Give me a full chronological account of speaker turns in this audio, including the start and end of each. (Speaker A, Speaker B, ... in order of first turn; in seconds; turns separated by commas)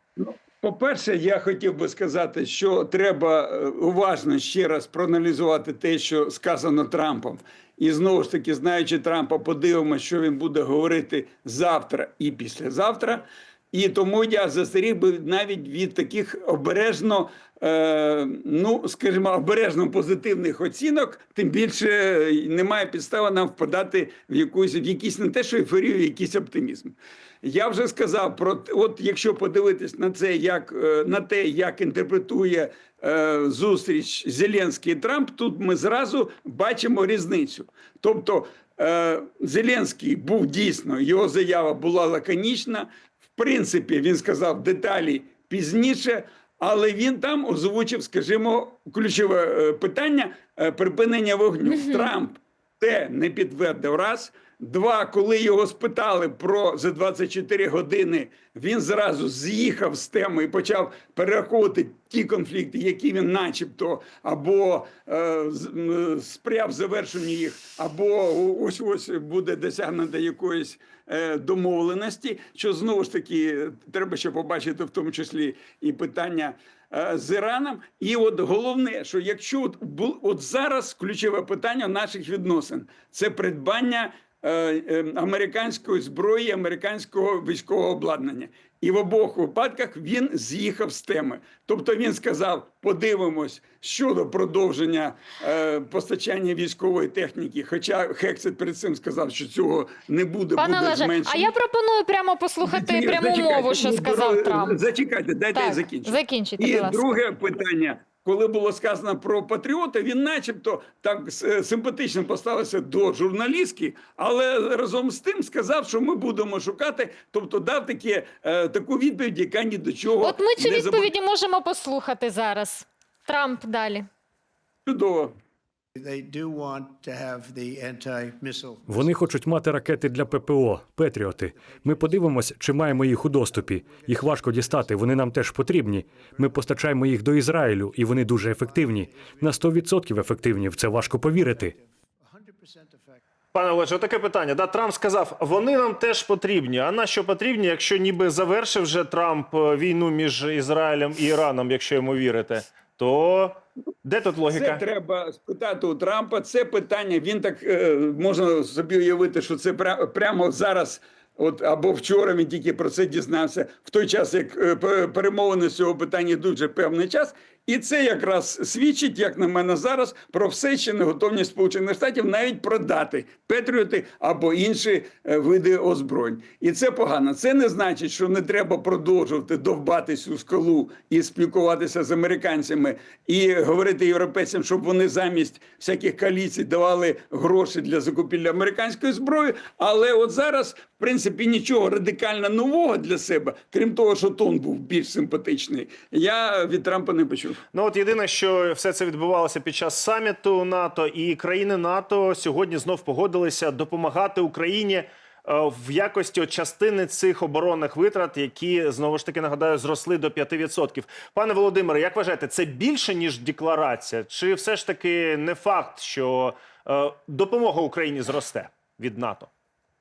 Speaker A: 0.2-101.5, Speaker B: 51.6-52.1, Speaker B: 100.5-104.8, Speaker A: 102.6-121.1, Speaker B: 105.5-107.2, Speaker B: 120.2-124.0, Speaker A: 124.8-125.3, Speaker C: 126.0-130.6, Speaker D: 128.9-141.7, Speaker C: 131.5-135.1, Speaker C: 136.0-137.0, Speaker C: 138.3-139.7, Speaker C: 140.3-140.8, Speaker C: 141.4-143.2, Speaker E: 143.5-154.8, Speaker A: 154.5-197.6, Speaker E: 197.7-219.5